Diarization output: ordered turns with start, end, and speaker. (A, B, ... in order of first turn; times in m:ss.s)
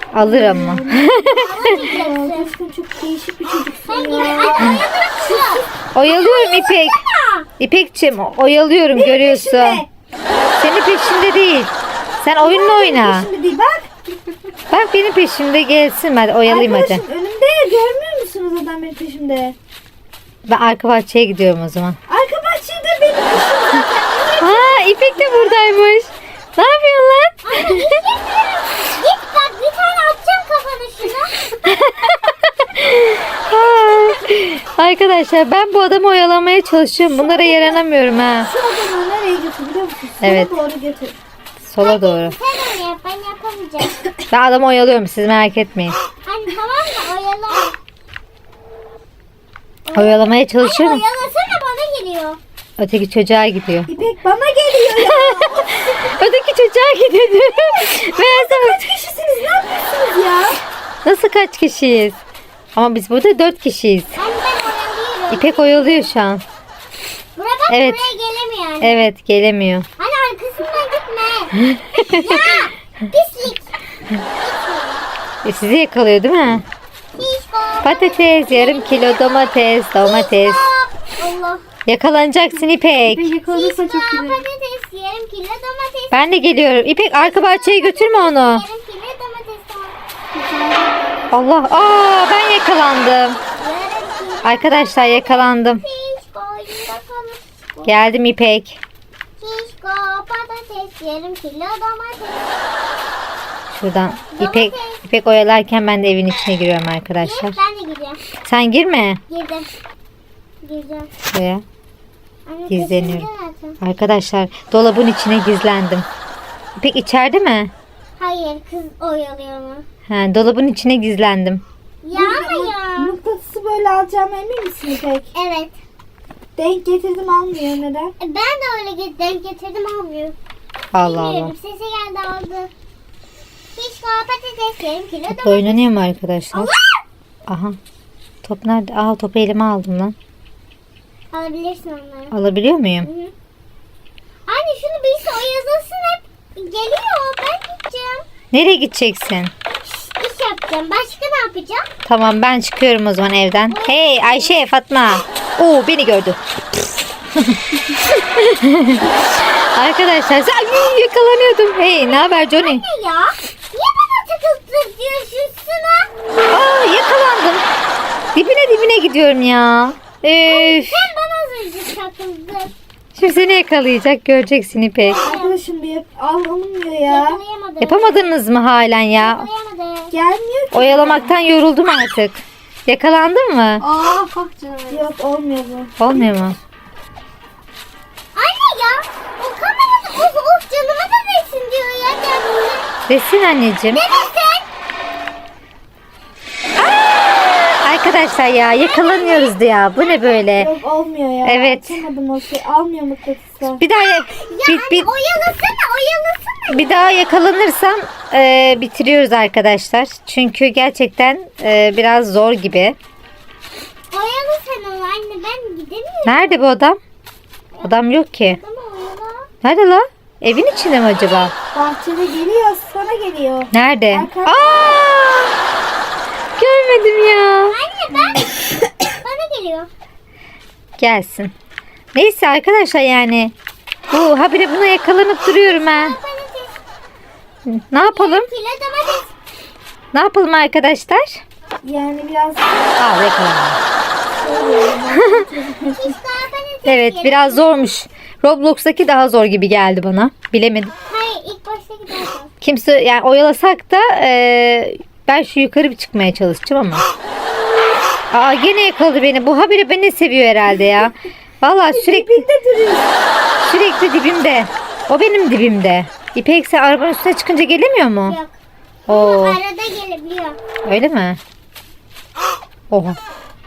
0:00.1-0:01.5 A
0:00.2-0:05.7 B
0:01.3-0:02.5 C
0:03.9-0:07.5 C
0:04.5-0:04.8 A
0:05.9-0:07.0 A
0:07.6-0:09.8 A
0:08.9-0:10.7 B
0:10.6-0:13.3 A
0:12.4-0:13.9 B
0:14.7-0:17.0 A
0:16.4-0:19.6 B
0:20.4-0:22.0 A
0:22.1-0:25.7 B
0:24.4-0:27.9 A
0:27.4-0:31.4 C
0:31.6-0:38.5 A
0:37.1-0:37.8 B
0:38.4-0:41.2 B
0:40.2-0:40.6 A
0:41.6-0:42.4 A
0:41.8-0:44.0 C
0:44.3-0:46.0 A
0:46.2-0:47.8 C
0:49.8-0:52.4 C
0:49.9-0:51.0 A
0:52.8-0:53.9 A
0:53.9-0:56.2 B
0:54.9-0:58.9 A
0:57.6-1:00.6 B
1:01.0-1:02.2 A
1:02.7-1:04.2 A
1:04.2-1:06.1 C
1:05.3-1:06.4 A
1:07.4-1:09.1 C
1:07.7-1:08.1 A
1:08.8-1:09.9 A
1:10.0-1:15.1 C
1:11.7-1:12.3 A
1:15.4-1:16.6 A
1:17.1-1:21.6 C
1:17.8-1:20.6 A
1:21.8-1:23.4 A
1:23.0-1:24.4 B
1:23.4-1:26.5 C
1:26.1-1:28.6 A
1:27.1-1:30.0 C
1:30.3-1:31.2 B
1:31.3-1:33.4 A
1:33.1-1:38.0 C
1:34.4-1:35.8 A
1:37.8-1:38.8 A
1:39.4-1:42.5 C
1:43.7-1:47.6 A
1:44.4-1:45.0 C
1:47.2-1:48.2 C
1:48.4-1:49.2 A
1:49.3-1:49.7 C
1:50.6-1:51.1 C
1:51.3-1:51.6 A
1:52.4-1:53.8 C
1:52.7-1:53.2 A
1:53.8-1:56.1 A
1:56.8-1:57.7 A
1:58.2-1:59.8 C
2:00.1-2:01.6 A
2:02.0-2:03.2 C
2:02.1-2:05.3 B
2:05.3-2:05.8 C
2:06.6-2:08.1 B
2:08.2-2:10.4 C
2:10.9-2:11.5 A
2:10.9-2:12.7 C
2:13.7-2:17.0 C
2:15.3-2:16.7 A
2:17.5-2:17.8 A
2:18.4-2:20.1 A
2:21.3-2:22.3 C
2:22.3-2:23.1 A
2:23.0-2:23.3 C
2:24.5-2:28.3 C
2:28.5-2:29.5 A
2:29.8-2:31.9 C
2:32.0-2:36.4 A
2:33.7-2:34.6 C
2:37.4-2:42.8 A
2:42.0-2:46.1 C
2:46.5-2:47.6 A
2:48.3-2:51.1 A
2:50.5-2:52.7 C
2:53.1-2:55.2 A
2:55.0-2:55.6 C
2:55.1-2:57.4 B
2:57.1-2:58.2 C
2:57.8-2:59.5 A
2:59.2-3:00.1 C
3:00.1-3:01.3 B
3:00.7-3:03.8 A
3:04.9-3:06.2 B
3:06.0-3:06.6 A
3:08.3-3:12.9 C
3:13.1-3:14.0 A
3:13.9-3:14.7 C
3:16.8-3:20.7 A
3:18.7-3:20.5 C
3:20.6-3:23.8 B
3:21.4-3:22.0 A
3:23.8-3:25.1 A
3:24.1-3:27.0 C
3:26.7-3:33.0 A
3:34.1-3:36.6 C
3:36.2-3:37.0 A
3:37.7-3:39.5 C
3:37.8-3:38.6 A
3:39.6-3:41.5 A
3:41.2-3:41.5 C
3:41.7-3:44.7 B
3:43.7-3:45.6 A
3:46.6-3:47.8 A
3:47.7-3:48.6 C
3:49.1-3:49.9 C
3:51.0-3:51.5 A
3:52.1-3:53.5 A
3:54.1-3:56.2 A
3:55.6-3:56.8 C
3:57.6-3:58.5 A
3:58.0-3:59.3 C
4:00.1-4:01.4 A
4:01.8-4:02.8 B
4:03.0-4:03.8 A
4:04.4-4:06.2 B
4:04.4-4:04.9 C
4:05.1-4:05.4 A
4:05.8-4:07.9 C
4:06.8-4:10.9 A
4:11.0-4:12.5 C
4:12.6-4:17.0 A
4:18.3-4:22.4 A
4:21.9-4:23.1 B
4:23.6-4:28.4 A
4:28.2-4:30.6 C
4:29.1-4:29.6 A
4:30.8-4:31.4 A
4:32.9-4:33.2 A